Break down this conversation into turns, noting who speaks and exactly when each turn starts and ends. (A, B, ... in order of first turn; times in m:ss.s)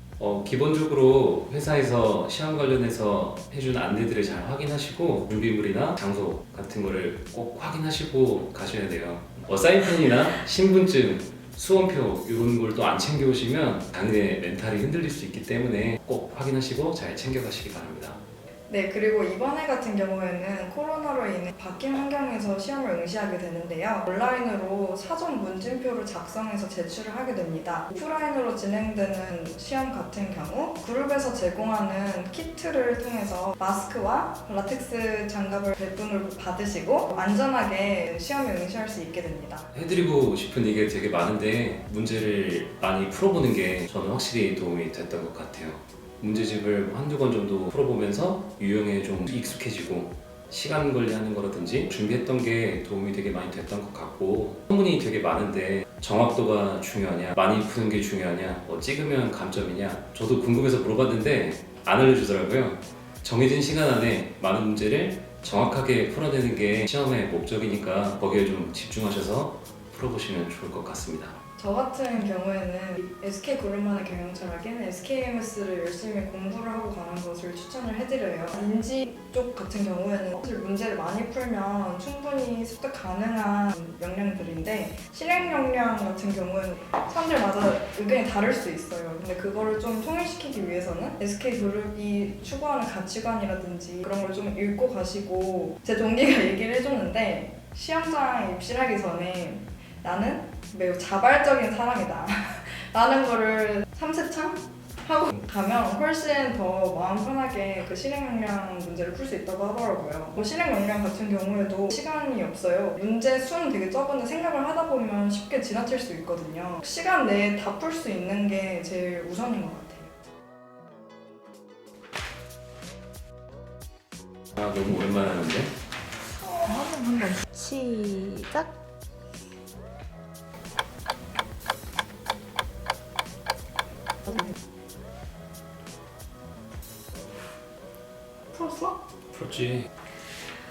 0:00.2-0:18.2 A
0:18.7-0:39.7 B
0:39.7-1:11.4 A
1:11.6-2:00.1 B
2:04.6-2:05.7 A
2:06.4-2:08.7 C
2:18.5-2:18.9 B
2:19.3-2:19.9 A